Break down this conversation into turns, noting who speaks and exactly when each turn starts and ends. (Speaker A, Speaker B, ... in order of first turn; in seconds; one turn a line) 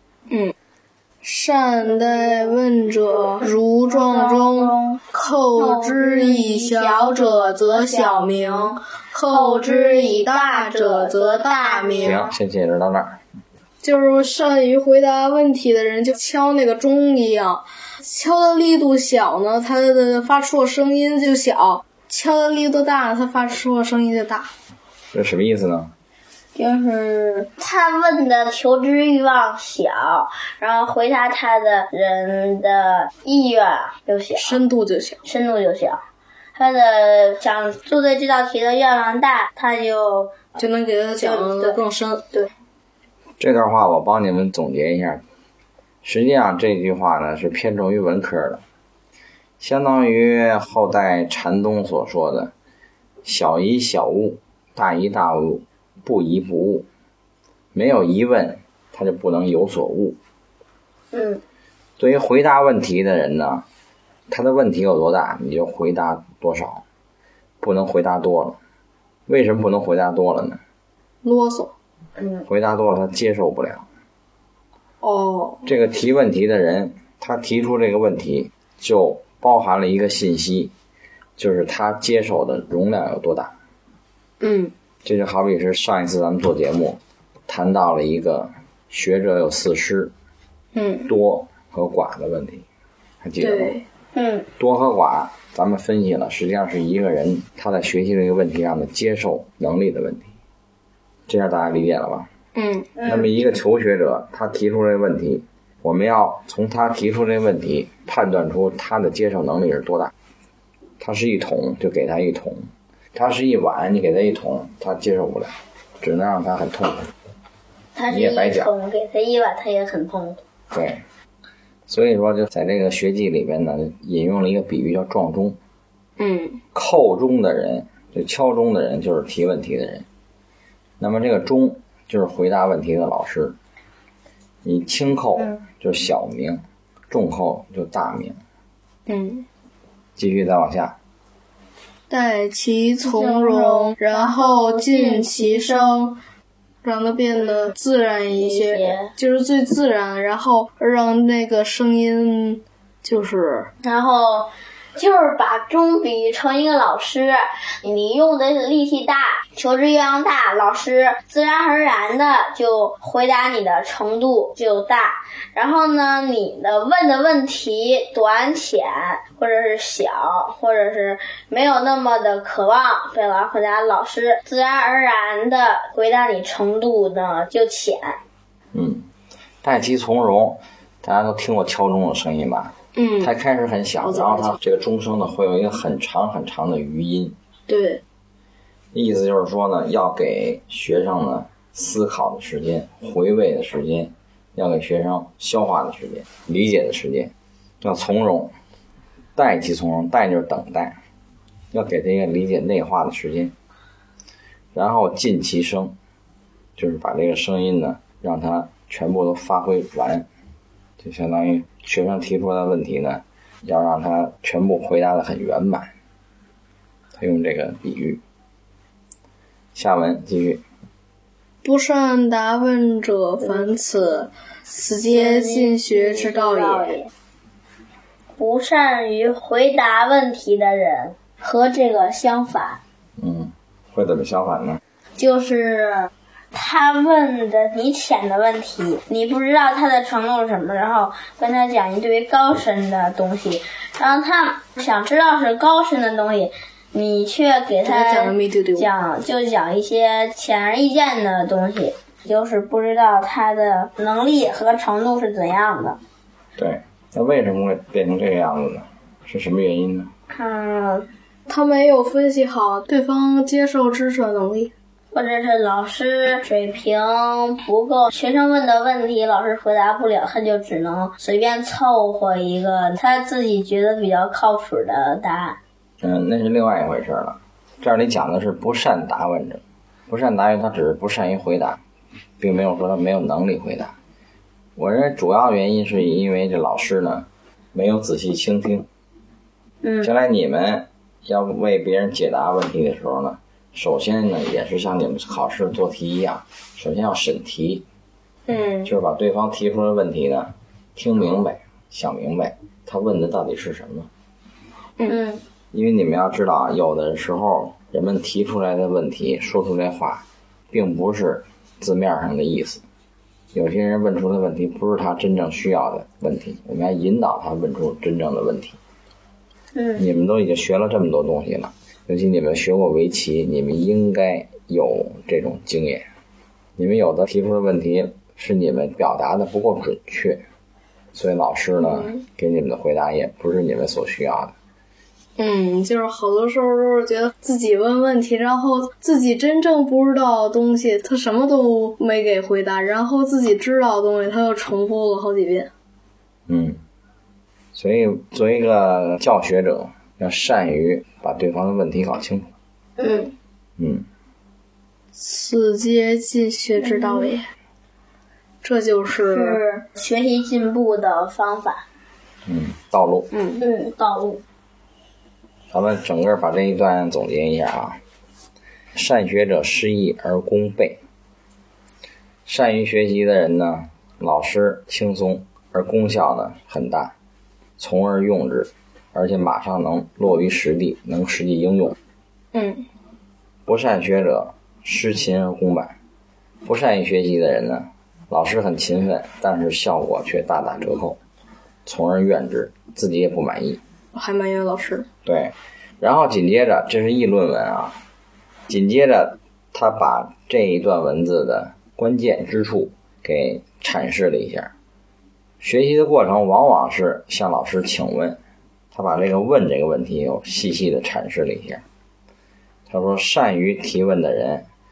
Speaker A: 0.3-0.5
Speaker A: 1.2-12.2
Speaker B: 3.4-5.0
Speaker B: 5.5-12.3
Speaker C: 12.0-13.2
Speaker A: 13.8-24.5
Speaker C: 25.1-25.9
Speaker B: 26.5-34.6
Speaker A: 34.4-35.2
Speaker B: 35.2-36.0
Speaker B: 36.5-40.4
Speaker A: 40.6-42.3
Speaker B: 41.2-41.8
Speaker C: 43.4-45.2
Speaker C: 46.0-48.6
Speaker C: 49.6-52.5
Speaker C: 53.2-56.9
Speaker C: 57.7-60.2
Speaker B: 61.1-61.4
Speaker C: 62.0-63.6
Speaker C: 64.3-66.8
Speaker C: 67.6-68.6
Speaker C: 69.3-70.6
Speaker A: 71.2-71.7
Speaker C: 72.5-73.8
Speaker A: 75.0-75.6
Speaker C: 75.6-80.7
Speaker C: 81.4-83.5
Speaker A: 84.4-84.7
Speaker C: 85.0-90.1
Speaker A: 90.7-91.1
Speaker C: 91.1-92.6
Speaker C: 93.2-93.7
Speaker A: 93.4-93.8
Speaker B: 94.1-94.5
Speaker C: 94.6-100.3
Speaker C: 101.3-102.3
Speaker A: 102.5-102.9
Speaker B: 102.9-103.3
Speaker C: 103.0-110.1
Speaker C: 111.0-117.1
Speaker B: 117.9-120.4
Speaker C: 118.1-118.7
Speaker C: 120.7-121.0
Speaker C: 121.9-125.6
Speaker A: 126.2-126.6
Speaker C: 126.7-130.1
Speaker C: 131.0-133.6
Speaker C: 134.6-138.4
Speaker A: 139.1-139.4
Speaker C: 140.2-141.0
Speaker A: 142.1-146.2
Speaker B: 143.0-145.8
Speaker A: 146.8-153.7
Speaker B: 148.3-149.1
Speaker B: 153.8-178.2
Speaker C: 178.7-179.1
Speaker C: 179.6-187.3
Speaker A: 182.9-183.3
Speaker A: 184.0-184.6
Speaker A: 187.7-188.0
Speaker C: 188.9-198.5
Speaker C: 199.3-201.0
Speaker C: 201.7-203.5
Speaker C: 204.7-205.9
Speaker C: 206.8-210.3
Speaker C: 211.0-215.9
Speaker C: 217.2-218.2
Speaker C: 219.7-220.6
Speaker A: 221.6-226.9
Speaker B: 225.0-227.1
Speaker B: 228.4-232.8
Speaker C: 233.2-234.8
Speaker B: 235.2-256.0
Speaker A: 247.8-248.9
Speaker C: 256.6-260.1
Speaker B: 260.3-261.1
Speaker A: 261.5-264.7
Speaker B: 265.1-275.6
Speaker C: 276.0-281.8
Speaker C: 282.4-283.9
Speaker C: 284.8-288.9
Speaker B: 289.8-290.1
Speaker C: 290.0-297.8
Speaker C: 298.8-304.1
Speaker B: 305.1-305.4
Speaker C: 305.7-312.8
Speaker C: 313.5-318.8
Speaker B: 319.7-320.0
Speaker C: 320.0-326.1
Speaker C: 326.8-330.4
Speaker C: 331.1-334.5
Speaker A: 335.4-345.7
Speaker C: 346.5-346.8
Speaker C: 347.7-352.5
Speaker B: 353.0-353.3
Speaker C: 353.8-354.1
Speaker A: 355.1-357.5
Speaker B: 356.8-357.3
Speaker A: 358.6-359.6
Speaker B: 359.2-361.8
Speaker C: 362.4-363.3
Speaker A: 363.3-363.6
Speaker B: 363.6-364.4
Speaker C: 365.7-368.0
Speaker C: 368.9-371.0
Speaker C: 372.5-377.1
Speaker C: 377.8-382.0
Speaker A: 382.5-382.9
Speaker C: 383.6-385.9
Speaker C: 386.6-391.2
Speaker C: 391.8-393.8
Speaker A: 394.1-395.1
Speaker C: 395.2-398.0
Speaker C: 398.7-404.7
Speaker C: 405.6-408.4
Speaker C: 408.9-411.8
Speaker C: 412.9-414.7